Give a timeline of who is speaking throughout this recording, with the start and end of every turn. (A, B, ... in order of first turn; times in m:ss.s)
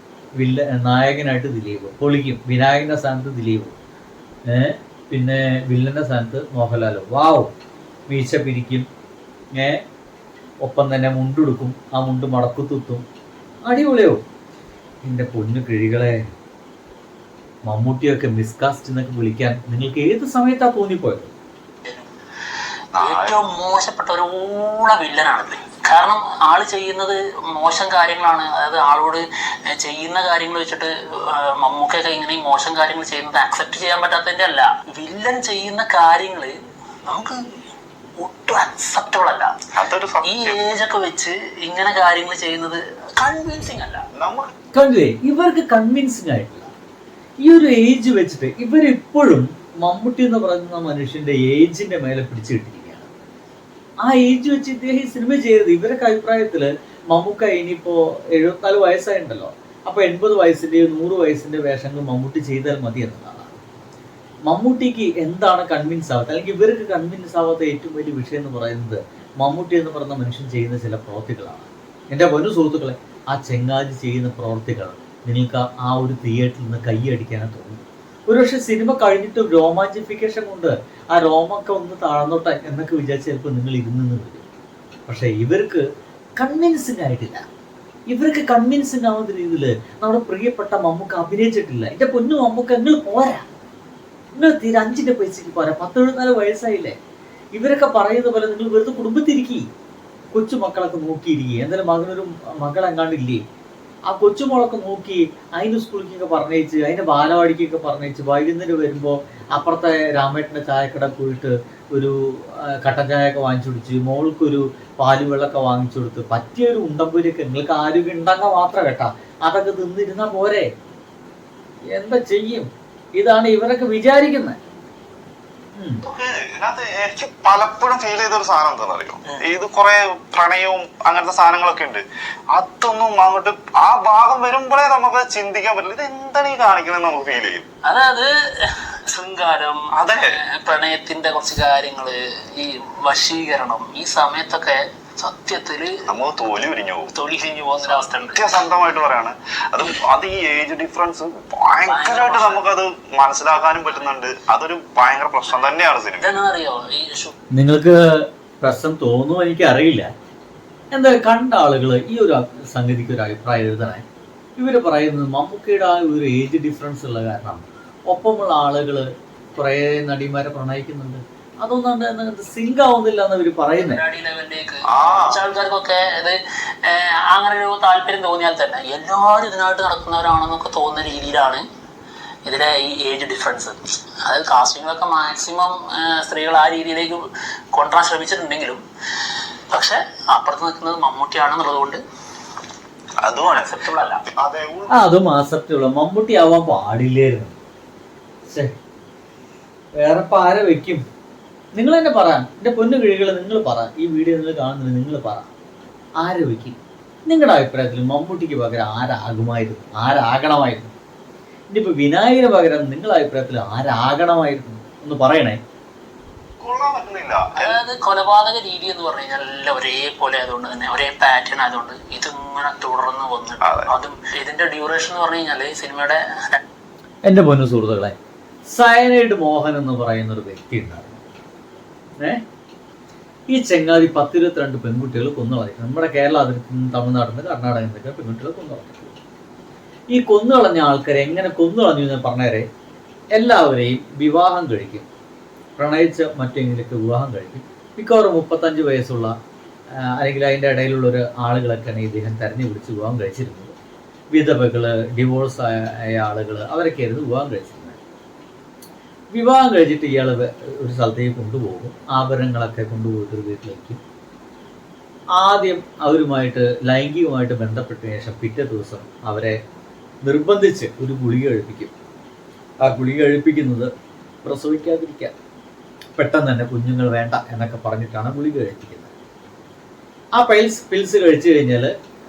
0:00.4-0:03.8 A
0:04.5-0:07.5 A
0:08.1-0:08.8 A
0:09.6-0:09.8 A
0:10.6-0:13.0 A
0:13.7-0:14.2 A
0:15.0-0:16.2 A
0:17.6-0:21.3 A
0:23.0-0:23.4 B
0:23.0-0:36.5 C
0:37.0-0:37.6 C
0:38.2-0:39.5 C
0:39.8-0:40.6 B
0:40.2-0:44.0 C
0:44.1-0:44.5 B
0:44.7-0:46.7 A
0:47.4-0:53.1 A
0:54.0-1:03.5 A
1:04.5-1:24.4 A
1:25.1-1:25.8 A
1:26.4-1:27.4 A
1:28.1-1:33.4 A
1:34.4-1:37.0 A
1:37.5-1:39.6 A
1:40.3-1:43.4 A
1:44.1-2:00.7 A
2:01.9-2:04.6 A
2:05.8-2:06.0 A
2:06.0-2:17.6 B
2:17.9-2:26.0 C
2:19.9-2:20.4 B
2:26.1-2:27.1 B
2:27.1-2:28.5 C
2:28.2-2:36.4 B
2:31.8-2:32.6 C
2:36.2-2:37.3 C
2:37.5-2:40.1 A
2:40.9-2:44.0 A
2:44.6-2:54.0 A
2:53.8-3:01.6 C
2:54.9-2:55.4 B
3:02.4-3:07.2 C
3:07.7-3:08.8 C
3:09.7-3:12.0 C
3:13.2-3:13.8 B
3:13.5-3:14.2 C
3:14.4-3:14.9 B
3:14.9-3:17.5 A
3:20.0-3:21.0 A
3:21.7-3:25.5 A
3:26.2-3:26.8 A
3:27.3-3:30.9 A
3:31.7-3:35.6 A
3:36.6-3:37.8 B
3:37.6-3:46.6 C
3:43.6-3:43.9 B
3:47.2-3:48.1 A
3:48.7-3:51.2 A
3:53.5-3:59.1 A
4:00.1-4:02.6 A
4:03.3-4:05.1 A
4:05.8-4:09.3 A
4:10.1-4:13.7 A
4:14.3-4:18.0 A
4:19.3-4:24.0 A
4:25.4-4:29.6 A
4:30.2-4:31.9 A
4:32.8-4:33.9 A
4:34.4-4:35.3 A
4:36.2-4:39.1 A
4:40.4-4:41.9 A